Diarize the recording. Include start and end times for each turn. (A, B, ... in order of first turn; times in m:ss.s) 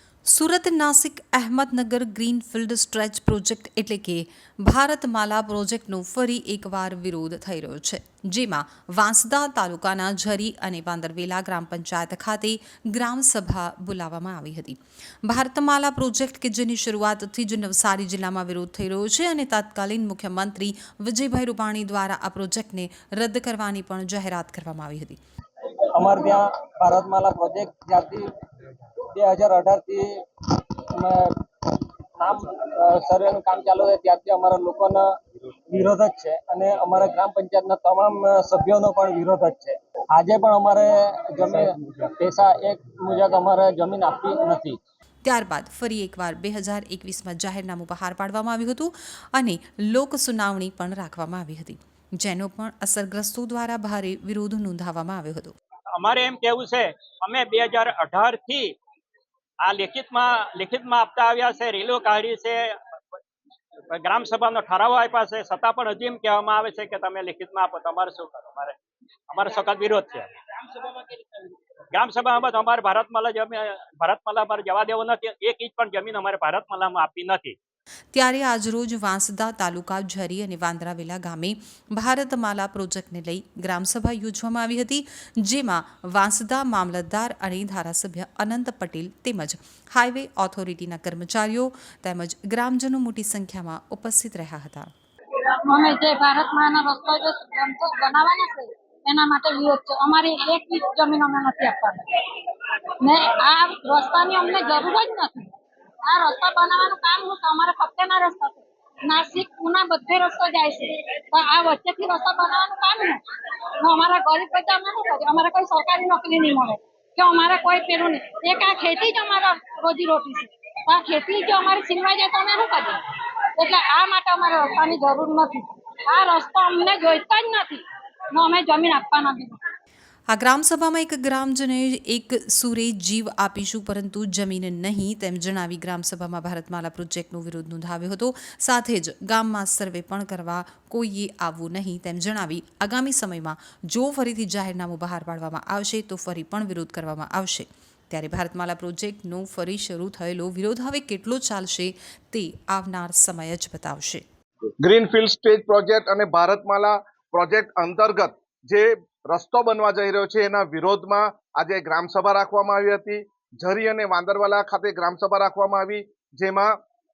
0:00.3-0:25.2 A
0:25.9-0:28.2 B
0:29.1-0:30.1 B
0:31.0-0:31.3 B
0:32.2-0:35.1 B
0:35.7-0:44.8 B
0:45.2-0:55.5 A
0:56.0-0:58.7 C
0:59.6-1:02.7 C
1:03.9-1:08.8 C
1:09.3-1:10.3 C
1:11.9-1:17.6 C
1:18.1-1:34.9 A
1:35.6-1:42.0 D
1:43.0-1:45.5 D
1:46.0-1:53.2 D
1:53.8-2:03.0 D
2:03.6-2:09.6 D
2:10.3-2:34.2 A
2:34.8-2:46.7 E